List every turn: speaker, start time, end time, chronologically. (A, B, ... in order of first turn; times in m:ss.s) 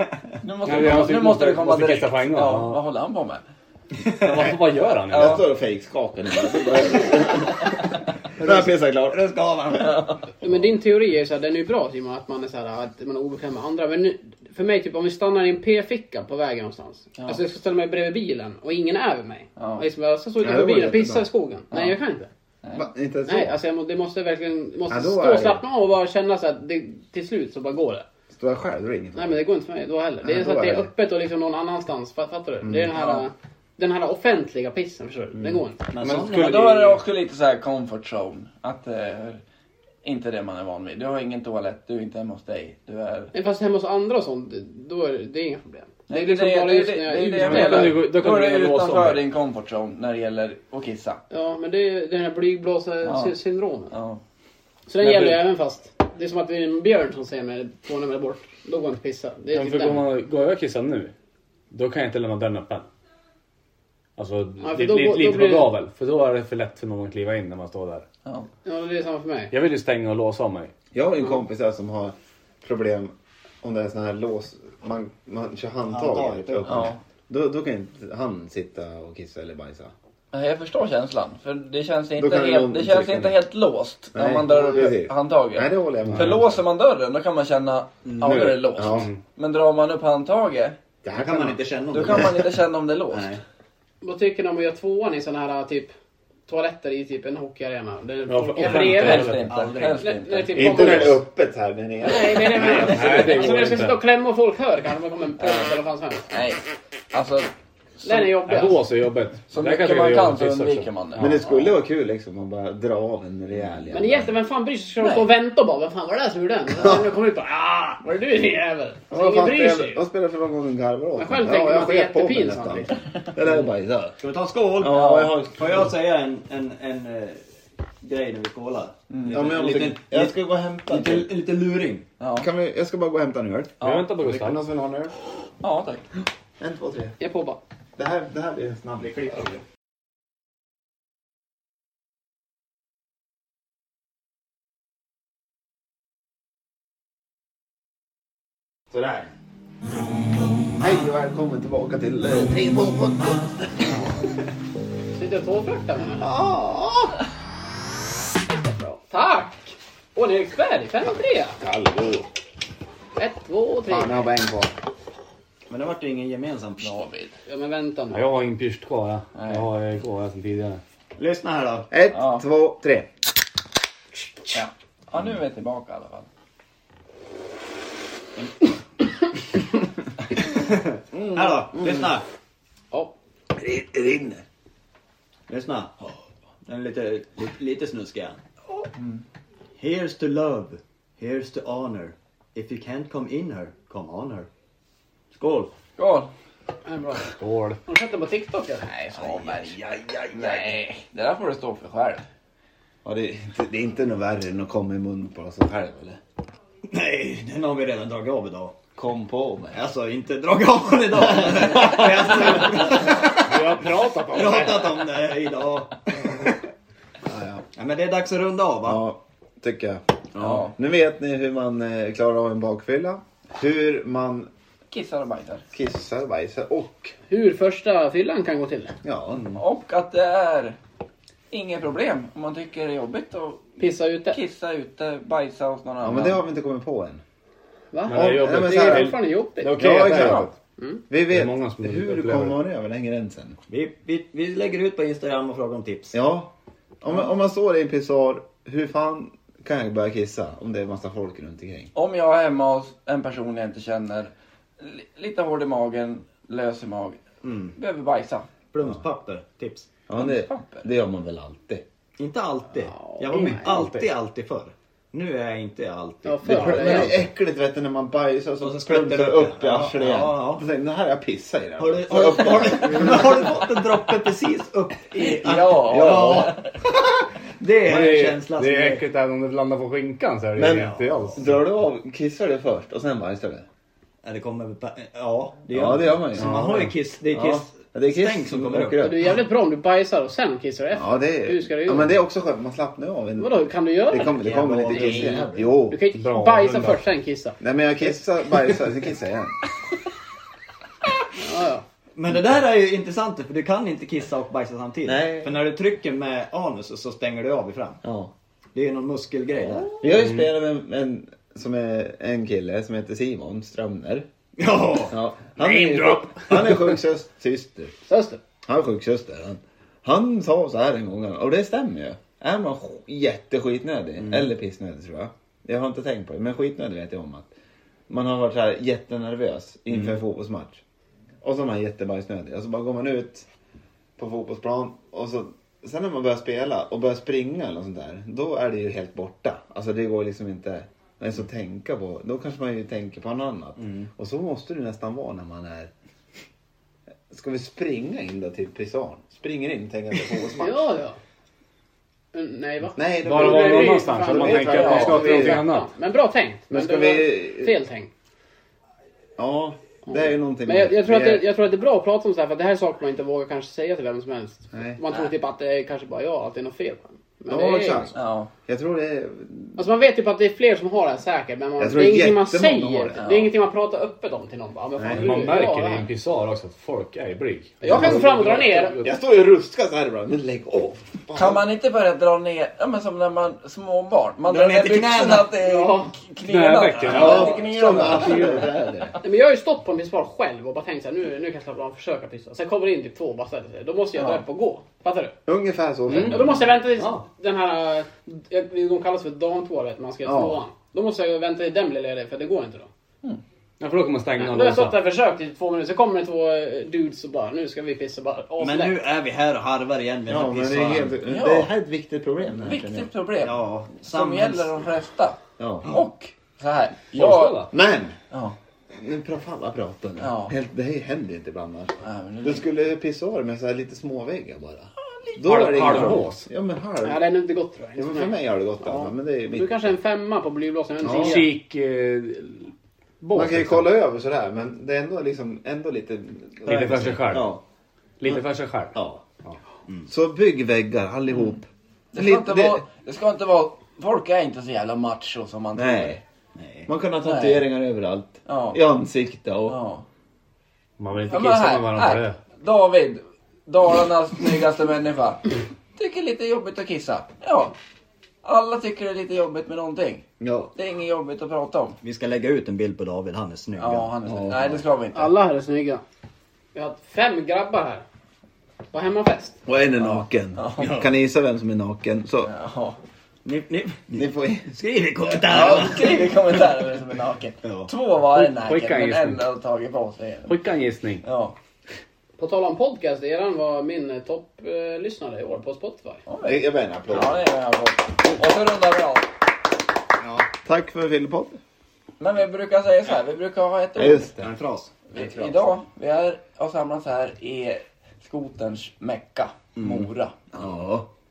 0:00.4-0:03.4 A
0:00.6-0:02.8 B
0:04.0-0:04.5 C
0:04.2-0:05.4 B
0:05.1-0:05.4 A
0:05.1-0:09.2 D
0:08.4-0:10.2 C
0:09.8-0:10.2 A
0:10.4-0:22.3 E
0:19.6-0:19.8 A
0:20.4-0:21.3 D
0:21.7-0:22.0 A
0:22.7-0:23.6 D
0:23.3-0:28.0 E
0:24.9-0:25.6 D
0:28.3-0:29.4 D
0:29.1-0:35.8 E
0:30.2-0:30.9 D
0:32.6-0:33.0 D
0:35.9-0:37.0 C
0:36.0-0:36.7 B
0:36.2-0:39.4 A
0:40.0-0:43.3 A
0:43.3-0:48.0 E
0:46.1-0:51.2 A
0:47.3-0:49.2 B
0:51.3-0:53.9 E
0:53.0-0:53.3 A
0:53.9-0:54.2 A
0:54.9-1:00.0 E
0:55.0-0:55.4 B
0:59.5-1:01.1 B
1:01.7-1:02.8 B
1:04.2-1:08.0 B
1:04.6-1:05.7 E
1:08.6-1:09.5 E
1:09.5-1:10.7 B
1:10.9-1:19.9 D
1:15.9-1:16.9 C
1:16.7-1:17.0 A
1:20.3-1:30.8 A
1:22.2-1:23.4 D
1:24.1-1:26.6 D
1:24.5-1:24.8 E
1:28.0-1:28.5 C
1:28.7-1:29.1 D
1:28.9-1:29.2 B
1:31.0-1:32.2 D
1:31.1-1:32.5 C
1:31.9-1:33.3 A
1:33.1-1:33.4 C
1:34.0-1:35.9 E
1:36.5-1:41.2 E
1:38.3-1:39.5 B
1:38.6-1:40.8 A
1:39.4-1:40.2 C
1:40.5-1:43.6 D
1:42.0-1:46.3 E
1:42.7-1:44.0 B
1:45.4-1:45.8 A
1:46.3-1:47.5 A
1:48.0-1:48.8 E
1:48.0-1:51.4 B
1:49.5-1:51.3 A
1:51.2-1:54.3 D
1:51.4-1:51.7 E
1:53.9-2:00.0 E
1:55.0-1:55.3 A
1:59.1-2:04.2 D
2:01.2-2:02.9 E
2:04.2-2:07.4 C
2:04.7-2:05.9 D
2:04.8-2:05.4 A
2:08.0-2:12.0 C
2:09.1-2:09.5 A
2:09.3-2:11.3 D
2:12.2-2:12.5 A
2:12.4-2:15.1 D
2:13.8-2:14.1 A
2:13.8-2:14.6 B
2:15.6-2:16.0 A
2:16.6-2:17.2 D
2:17.2-2:17.6 E
2:18.0-2:19.6 D
2:28.9-2:29.3 D
2:30.7-2:34.2 D
2:35.1-2:36.3 E
2:36.2-2:37.1 D
2:38.5-2:41.6 E
2:41.6-2:42.3 D
2:43.2-2:44.3 E
2:43.9-2:44.8 D
2:45.7-2:47.0 C
2:46.8-2:47.4 A
2:47.4-2:48.3 E
2:48.1-2:50.8 B
2:49.4-2:49.7 A
2:51.2-2:51.9 C
2:51.9-2:53.1 D
2:52.1-2:52.4 A
2:54.5-2:56.3 A
3:00.4-3:02.2 C
3:01.1-3:02.1 D
3:03.5-3:04.4 D
3:05.5-3:08.4 C
3:09.8-3:14.5 C
3:15.3-3:15.7 C
3:16.0-3:16.3 A
3:16.8-3:18.9 E
3:17.4-3:17.8 B
3:18.8-3:22.3 A
3:19.2-3:20.7 C
3:23.0-3:26.2 D
3:26.9-3:28.8 C
3:29.0-3:29.8 D
3:29.7-3:36.6 C
3:31.3-3:32.8 D
3:33.4-3:35.0 B
3:37.2-3:37.6 D
3:37.7-3:39.0 C
3:38.8-3:44.5 D
3:40.4-3:40.7 C
3:40.4-3:40.7 A
3:44.9-3:45.6 A
3:45.7-3:47.1 D
3:47.3-3:49.0 E
3:49.0-3:49.4 D
3:49.5-3:50.8 A
3:51.5-3:53.6 A
3:53.8-3:54.4 E
3:54.3-3:56.4 A
3:56.0-3:57.2 D
3:57.9-3:59.8 E
3:58.1-4:00.5 B
3:58.1-3:59.2 D
3:59.7-4:00.5 D
4:00.0-4:00.5 A
4:01.1-4:03.6 D
4:01.3-4:02.6 B
4:03.7-4:06.2 C
4:06.1-4:11.9 D
4:11.9-4:17.2 A
4:17.4-4:17.7 C
4:17.7-4:18.5 A
4:18.7-4:19.9 C
4:20.1-4:21.8 D
4:20.1-4:20.9 A
4:22.2-4:27.2 C
4:22.8-4:23.8 E
4:23.3-4:24.1 B
4:26.2-4:27.2 E
4:26.4-4:33.5 D
4:28.6-4:30.6 C
4:31.8-4:39.0 C
4:35.1-4:36.8 A
4:37.8-4:41.6 B
4:40.6-4:43.6 D
4:40.7-4:41.4 C
4:44.2-4:49.1 C
4:45.7-4:49.4 D
4:46.4-4:46.9 B
4:49.0-4:52.1 E
4:50.9-4:56.0 D
4:53.4-4:54.4 E
4:54.2-4:55.8 C
4:55.9-4:57.6 E
4:56.1-4:57.0 B
4:57.6-4:59.6 D
5:01.3-5:01.8 E
5:02.2-5:08.0 C
5:05.0-5:05.6 D
5:08.0-5:08.3 D
5:08.7-5:10.0 C
5:10.0-5:14.3 D
5:10.2-5:10.5 B
5:14.6-5:15.2 C
5:15.1-5:17.9 D
5:15.6-5:16.2 B
5:18.1-5:18.4 E
5:18.6-5:27.5 D
5:28.1-5:30.8 D
5:31.4-5:33.4 D
5:34.2-5:45.9 D
5:47.3-5:50.9 D
5:50.6-5:51.2 E
5:52.3-5:58.1 E
5:53.0-5:55.6 D
5:53.2-5:55.9 B
5:54.8-5:55.2 A
5:56.7-5:57.7 D
5:59.4-6:01.5 D
6:00.1-6:08.2 E
6:04.7-6:05.0 D
6:07.5-6:09.8 D
6:08.1-6:08.5 A
6:09.8-6:16.1 E
6:11.8-6:13.2 D
6:13.2-6:13.5 A
6:15.0-6:15.4 D
6:15.1-6:19.1 B
6:17.8-6:19.0 E
6:17.8-6:21.6 D
6:21.3-6:28.7 A
6:24.5-6:25.6 C
6:25.6-6:26.2 E
6:26.4-6:28.7 B
6:27.1-6:29.2 D
6:29.2-6:35.4 E
6:34.2-6:34.4 A
6:35.5-6:36.6 D
6:36.1-6:37.2 B
6:36.3-6:42.9 E
6:40.2-6:40.6 D
6:43.8-6:45.0 B
6:44.4-6:49.0 E
6:48.6-6:51.2 C
6:50.3-6:53.1 D
6:51.2-6:51.7 A
6:52.6-6:57.7 A
6:53.4-6:54.8 C
6:55.6-6:55.9 D
6:57.1-6:57.7 B
6:57.7-6:58.2 D
6:58.3-6:58.6 A
6:58.9-7:07.2 D
7:00.2-7:00.5 A
7:02.0-7:02.6 A
7:05.2-7:06.1 A
7:05.4-7:06.5 B
7:07.0-7:11.6 E
7:08.0-7:09.8 D
7:11.0-7:11.4 D
7:11.0-7:13.9 B
7:13.3-7:17.6 D
7:16.6-7:17.5 B
7:18.2-7:19.6 B
7:18.9-7:19.2 D
7:20.0-7:22.8 D
7:22.1-7:26.2 A
7:25.7-7:26.2 D
7:26.6-7:26.9 C
7:26.9-7:29.8 D
7:27.2-7:27.6 A
7:28.5-7:28.8 A
7:29.7-7:30.0 A
7:31.0-7:32.4 B
7:31.3-7:37.7 A
7:38.4-7:42.0 A
7:40.4-7:40.7 D
7:42.0-7:44.5 C
7:43.8-7:45.3 A
7:44.3-7:44.5 D
7:45.1-7:46.0 E
7:46.7-7:48.0 E
7:48.9-7:49.6 E
7:49.6-7:52.5 D
7:50.0-7:51.0 A
7:50.8-7:51.1 C
7:52.4-7:53.0 A
7:53.4-7:56.4 C
7:54.1-7:54.7 D
7:55.4-8:00.6 A
7:55.5-7:56.0 D
7:57.6-7:57.9 C
7:58.3-7:59.4 B
8:00.4-8:01.2 B
8:01.2-8:01.6 A
8:02.4-8:06.2 E
8:06.3-8:09.3 A
8:06.4-8:07.4 D
8:10.5-8:11.6 D
8:12.2-8:14.3 A
8:14.0-8:14.5 D
8:14.3-8:15.0 C
8:15.1-8:20.4 A
8:15.1-8:15.8 D
8:20.5-8:21.0 D
8:20.6-8:20.9 C